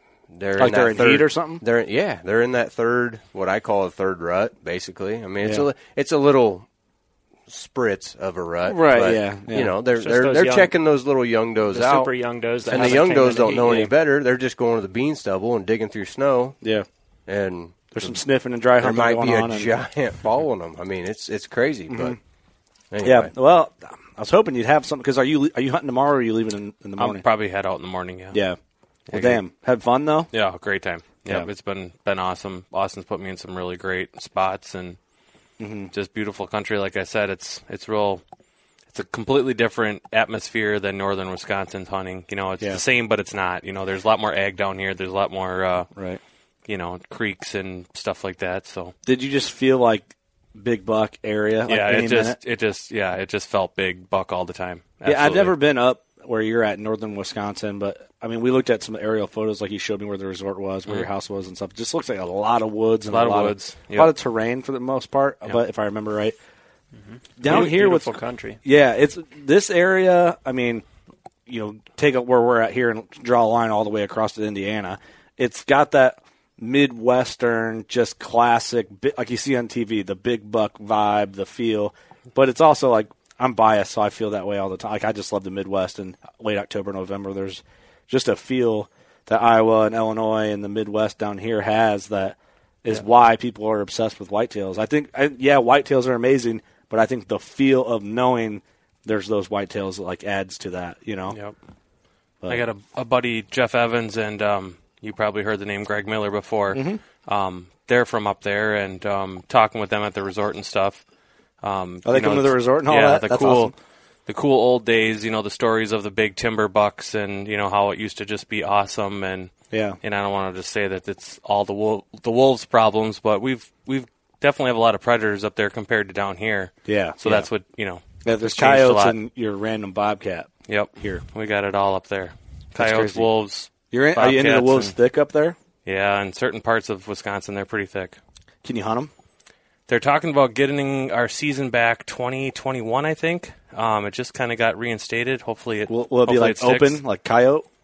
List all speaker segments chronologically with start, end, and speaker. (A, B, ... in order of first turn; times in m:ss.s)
0:00.3-0:06.7 A
0:00.6-0:01.6 B
0:05.4-0:05.7 B
0:07.5-0:12.1 A
0:08.7-0:09.7 B
0:10.0-0:10.7 C
0:11.7-0:13.9 C
0:12.7-0:16.6 A
0:16.6-0:16.9 B
0:17.3-0:18.2 A
0:17.9-0:19.7 B
0:18.8-0:22.2 A
0:21.9-0:22.2 B
0:22.9-0:23.3 A
0:23.0-0:27.2 B
0:27.0-0:28.4 D
0:28.3-0:28.6 B
0:29.1-0:29.4 D
0:29.1-0:30.3 B
0:30.3-0:35.0 D
0:35.6-0:35.9 B
0:35.9-0:38.2 D
0:38.9-0:45.9 D
0:46.0-0:46.2 B
0:46.7-0:48.9 D
0:49.0-0:52.4 B
0:51.7-0:55.6 D
0:55.0-1:06.4 B
1:03.1-1:04.1 D
1:07.0-1:08.6 C
1:07.4-1:10.8 B
1:11.5-1:41.4 B
1:41.3-1:41.6 D
1:42.5-1:51.0 D
1:46.7-1:47.0 B
1:51.6-1:53.7 D
1:52.0-1:53.7 B
1:54.3-2:09.2 D
1:59.7-2:00.0 B
2:06.9-2:07.5 B
2:08.2-2:11.2 B
2:10.7-2:15.0 D
2:12.8-2:13.3 B
2:13.9-2:15.6 B
2:15.8-2:18.2 D
2:18.6-2:19.1 B
2:19.9-2:27.0 D
2:25.9-2:27.7 B